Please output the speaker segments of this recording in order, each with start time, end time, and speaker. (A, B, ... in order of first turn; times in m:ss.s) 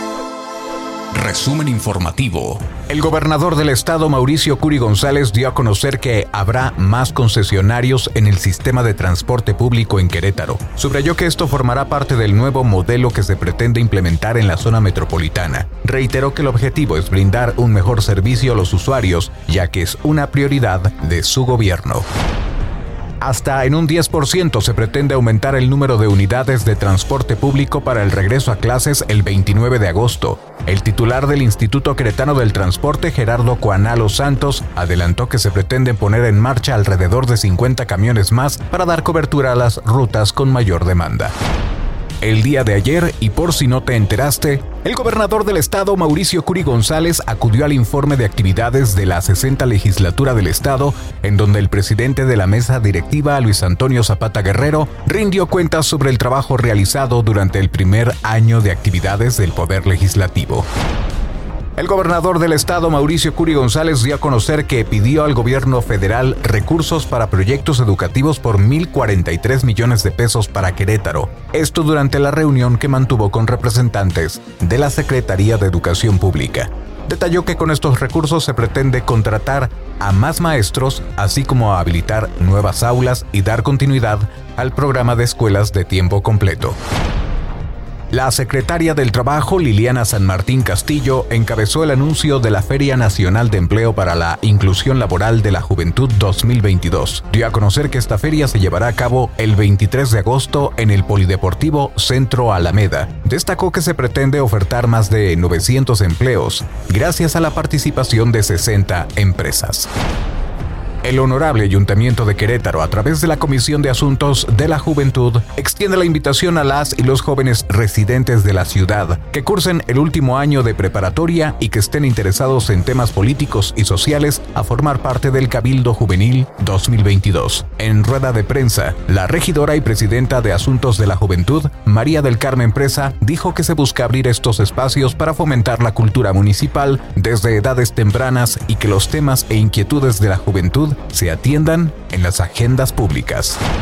0:01.1-0:22.1 A
0:23.2-0:41.3 A
0:42.2-1:00.7 A
1:01.8-1:26.8 A
1:28.1-1:49.9 A
1:51.0-2:23.6 A